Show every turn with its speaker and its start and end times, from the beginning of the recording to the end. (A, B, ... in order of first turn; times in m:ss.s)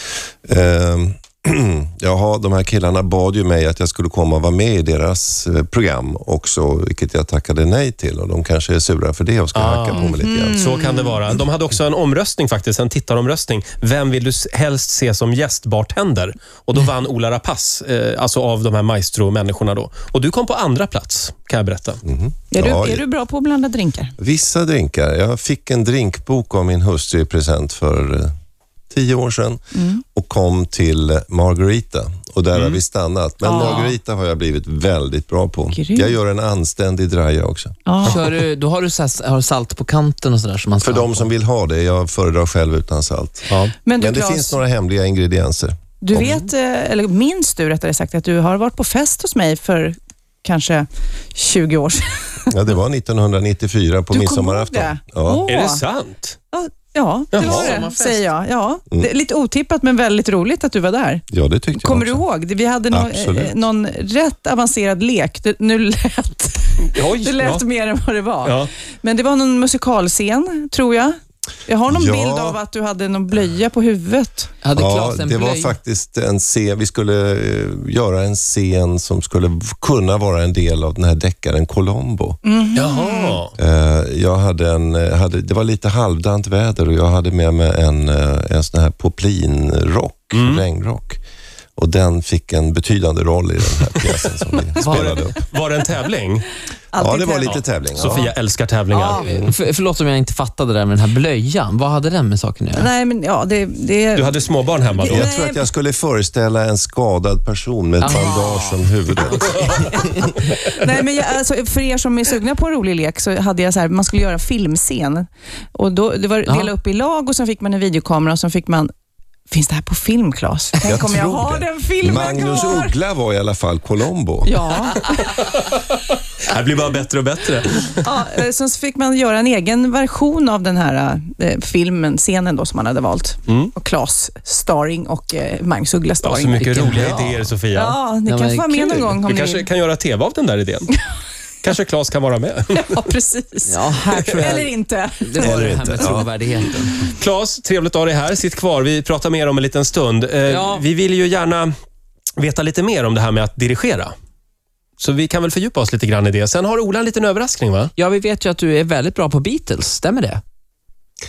0:00.4-0:10.8 A
0:09.5-0:22.0 B
0:10.0-0:11.2 C
0:22.0-0:23.0 A
0:22.5-0:24.1 C
0:24.2-0:28.3 A
0:28.9-0:37.8 A
0:29.7-0:30.0 C
0:32.5-0:32.8 B
0:33.4-0:33.9 C
0:35.7-0:36.1 C
0:37.8-0:38.2 C
0:38.0-0:41.3 D
0:40.8-0:46.4 A
0:43.8-0:44.6 C
0:46.0-0:52.5 C
0:52.5-0:55.5 A
0:54.1-0:55.8 C
0:55.5-0:56.4 B
0:56.5-1:14.5 C
0:57.3-0:57.8 B
0:57.4-0:58.3 D
1:01.3-1:02.2 A
1:02.8-1:03.6 A
1:06.9-1:07.6 B
1:08.4-1:08.7 B
1:11.9-1:12.6 A
1:14.6-1:15.8 D
1:14.7-1:22.4 A
1:22.4-1:23.4 C
1:22.7-1:23.5 B
1:23.6-1:31.2 A
1:30.3-1:30.6 B
1:31.8-1:35.4 A
1:34.8-1:35.2 D
1:34.8-1:36.5 B
1:36.9-1:38.2 C
1:37.0-1:38.3 A
1:37.4-1:39.2 B
1:38.9-1:39.3 C
1:39.2-1:42.9 D
1:39.2-1:39.5 A
1:42.7-1:44.4 C
1:44.1-1:45.3 B
1:44.9-1:45.6 C
1:45.0-1:50.0 A
1:48.0-1:49.7 D
1:49.5-1:49.7 B
1:50.4-1:58.9 C
1:56.4-1:56.7 D
1:59.5-2:03.0 C
2:00.8-2:04.6 A
2:04.4-2:05.3 C
2:05.2-2:08.0 B
2:08.0-2:17.1 C
2:13.5-2:13.7 B
2:16.2-2:18.0 B
2:16.6-2:17.4 D
2:17.7-2:19.7 C
2:18.2-2:19.1 D
2:19.1-2:20.9 B
2:21.6-2:22.9 B
2:22.7-2:26.0 C
2:23.7-2:26.9 D
2:25.4-2:26.3 A
2:27.0-2:31.7 B
2:30.5-2:30.8 D
2:32.4-2:34.1 B
2:35.0-2:37.9 B
2:38.0-2:40.4 D